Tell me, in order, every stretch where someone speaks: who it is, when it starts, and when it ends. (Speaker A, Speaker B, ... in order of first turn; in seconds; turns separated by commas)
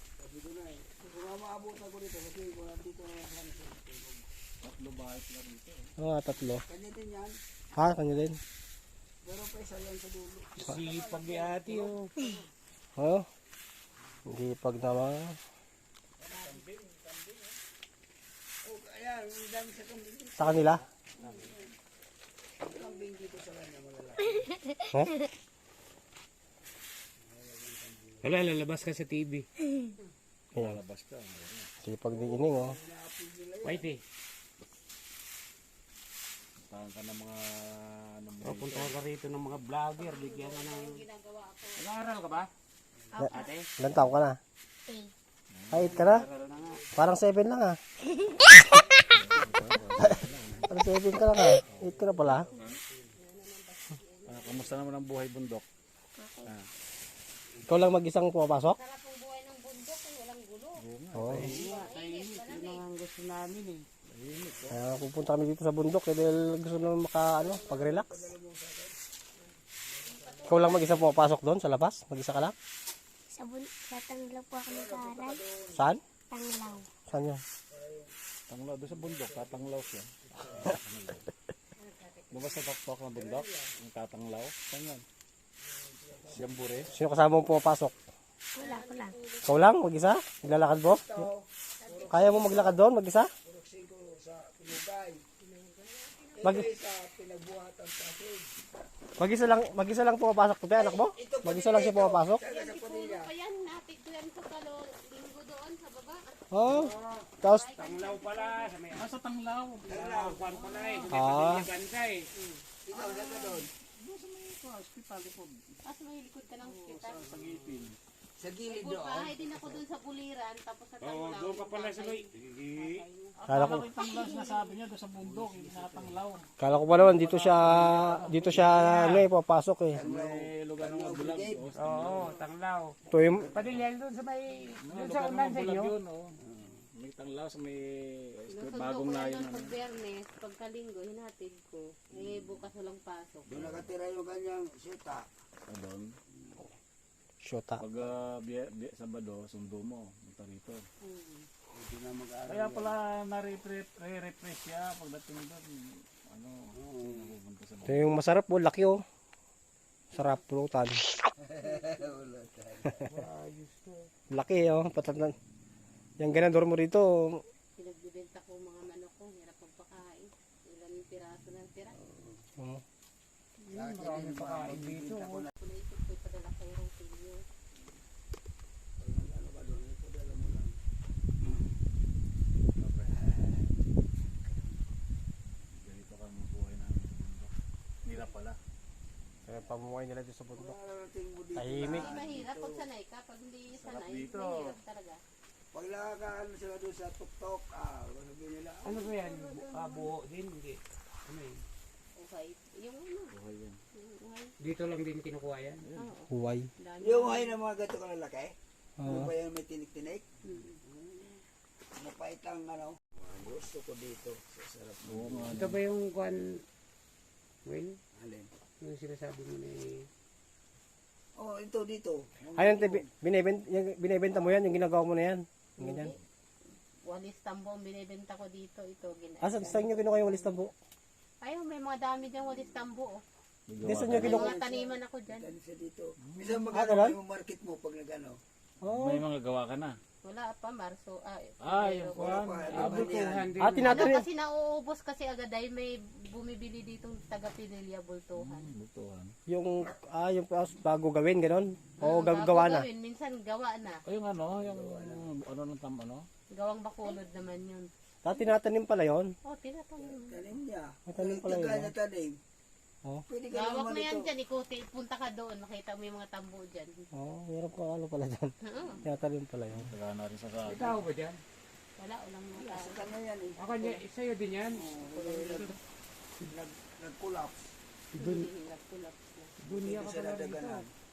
Speaker A: 0.2-4.3, Speaker B: 4.6-5.9, Speaker C: 6.0-6.6, Speaker A: 6.6-7.4, Speaker C: 7.8-8.4, Speaker A: 9.2-12.3, Speaker D: 10.7-12.1, Speaker C: 13.0-13.3, Speaker C: 14.3-15.4, Speaker A: 16.2-16.6, Speaker D: 16.9-17.5, Speaker A: 18.6-21.7, Speaker C: 20.4-20.8, Speaker B: 21.2-21.5, Speaker A: 22.6-24.5, Speaker A: 27.2-28.4, Speaker D: 28.2-29.5, Speaker B: 30.5-31.7, Speaker C: 31.8-32.8, Speaker A: 32.1-33.9, Speaker D: 33.6-34.0, Speaker B: 36.7-39.0, Speaker D: 38.5-41.0, Speaker E: 40.0-41.9, Speaker D: 41.8-42.5, Speaker C: 43.2-44.4, Speaker D: 43.2-43.7, Speaker B: 45.5-46.3, Speaker C: 45.7-46.3, Speaker D: 45.8-46.9, Speaker C: 47.0-47.8, Speaker B: 49.1-50.8, Speaker C: 50.7-52.5, Speaker A: 51.4-53.1, Speaker E: 53.2-54.8, Speaker B: 54.3-55.7, Speaker F: 56.2-56.5, Speaker C: 57.7-58.8, Speaker E: 58.7-60.8, Speaker B: 60.8-61.7, Speaker C: 61.1-61.5, Speaker D: 61.3-63.9, Speaker E: 61.4-62.9, Speaker B: 64.1-64.8, Speaker A: 64.3-65.0, Speaker C: 64.7-68.3, Speaker A: 67.3-69.0, Speaker A: 69.9-71.1, Speaker E: 70.0-71.2, Speaker C: 70.5-72.5, Speaker F: 73.3-75.4, Speaker A: 74.7-75.8, Speaker C: 75.7-76.0, Speaker F: 76.3-76.9, Speaker C: 77.0-77.4, Speaker A: 77.7-78.1, Speaker B: 78.5-81.3, Speaker A: 78.9-79.8, Speaker A: 80.3-80.7, Speaker E: 81.8-82.6, Speaker B: 82.3-85.0, Speaker A: 83.1-83.7, Speaker A: 85.6-87.0, Speaker B: 86.3-87.0, Speaker C: 86.9-87.9, Speaker F: 88.6-89.2, Speaker E: 88.6-89.6, Speaker C: 89.4-91.3, Speaker A: 90.5-92.8, Speaker E: 91.8-92.7, Speaker C: 92.1-93.3, Speaker A: 93.4-95.2, Speaker E: 95.4-96.6, Speaker A: 96.4-98.5, Speaker C: 99.2-102.4, Speaker A: 100.8-103.3, Speaker E: 102.4-106.9, Speaker C: 106.5-107.7, Speaker D: 106.7-109.1, Speaker E: 107.4-108.7, Speaker B: 108.9-110.0, Speaker A: 109.9-110.7, Speaker D: 110.0-112.3, Speaker B: 110.5-111.4, Speaker C: 111.1-111.7, Speaker A: 112.9-113.7, Speaker B: 113.2-115.7, Speaker E: 115.8-117.3, Speaker A: 116.8-119.8, Speaker B: 117.0-118.0, Speaker E: 118.7-123.4, Speaker D: 121.1-123.0, Speaker B: 123.4-129.3, Speaker C: 123.5-123.9, Speaker A: 125.2-126.2, Speaker C: 126.6-130.0, Speaker A: 129.9-132.3, Speaker B: 129.9-132.4, Speaker D: 131.8-133.0, Speaker C: 133.1-133.6, Speaker A: 133.4-133.7, Speaker D: 133.5-135.9, Speaker B: 134.8-136.3, Speaker A: 136.4-136.8, Speaker B: 136.9-139.7, Speaker E: 138.5-143.8, Speaker A: 142.2-142.6, Speaker A: 143.5-145.3, Speaker B: 145.7-146.1, Speaker C: 147.4-147.8, Speaker B: 147.8-150.8, Speaker E: 151.0-151.4, Speaker A: 151.7-153.0, Speaker B: 152.5-158.2, Speaker A: 156.7-157.3, Speaker C: 157.8-159.0, Speaker C: 160.1-161.0, Speaker A: 161.4-163.3, Speaker D: 163.2-164.0, Speaker C: 164.3-165.3, Speaker C: 166.2-167.4, Speaker E: 167.8-172.0, Speaker A: 172.0-172.4, Speaker D: 173.7-175.5, Speaker A: 173.7-175.5, Speaker E: 175.6-177.4, Speaker A: 179.0-180.8, Speaker A: 181.4-181.7, Speaker B: 182.8-183.3, Speaker A: 183.1-183.8, Speaker A: 184.3-184.7, Speaker B: 185.8-187.5, Speaker B: 188.0-188.6, Speaker C: 189.5-190.8, Speaker A: 190.5-192.9, Speaker C: 191.6-192.2, Speaker E: 191.9-195.2, Speaker B: 193.8-194.8, Speaker A: 195.7-200.1, Speaker D: 198.9-201.6, Speaker E: 202.2-203.3, Speaker B: 203.3-203.8, Speaker E: 203.9-204.6, Speaker D: 204.6-205.9, Speaker E: 206.0-207.6, Speaker C: 206.3-206.7, Speaker A: 207.0-210.3, Speaker C: 209.0-209.3, Speaker A: 210.8-211.4, Speaker A: 212.0-215.5, Speaker B: 215.0-215.8, Speaker D: 215.5-216.6, Speaker D: 217.7-218.0, Speaker A: 218.2-218.5, Speaker D: 218.8-220.1, Speaker A: 221.4-223.1, Speaker C: 222.6-226.1, Speaker E: 225.8-226.2, Speaker E: 227.1-230.6, Speaker C: 229.4-230.7, Speaker E: 231.4-233.2, Speaker B: 233.7-234.4, Speaker C: 233.8-234.5, Speaker A: 234.0-238.4, Speaker E: 234.1-235.5, Speaker B: 236.3-236.7, Speaker C: 236.7-237.2, Speaker C: 238.8-239.2, Speaker B: 238.9-240.0, Speaker E: 240.2-243.2, Speaker B: 241.6-243.2, Speaker A: 242.2-243.5, Speaker D: 242.8-243.9, Speaker C: 243.6-244.3, Speaker E: 243.8-248.7, Speaker B: 248.3-249.3, Speaker C: 249.5-252.9, Speaker E: 252.0-254.0, Speaker B: 254.1-256.3, Speaker A: 254.6-255.3, Speaker E: 256.5-257.9, Speaker C: 258.2-259.3, Speaker E: 259.4-260.4, Speaker A: 260.0-262.4, Speaker C: 261.1-261.9, Speaker A: 263.3-264.2, Speaker E: 263.5-267.1, Speaker C: 267.1-269.9, Speaker E: 268.6-269.0, Speaker B: 269.7-271.1, Speaker D: 270.6-271.4, Speaker E: 272.0-273.1, Speaker A: 272.6-274.0, Speaker D: 273.6-275.7, Speaker A: 274.7-275.8, Speaker A: 276.4-277.7, Speaker D: 278.1-278.5, Speaker E: 278.2-279.5, Speaker D: 279.6-280.9, Speaker A: 279.7-280.9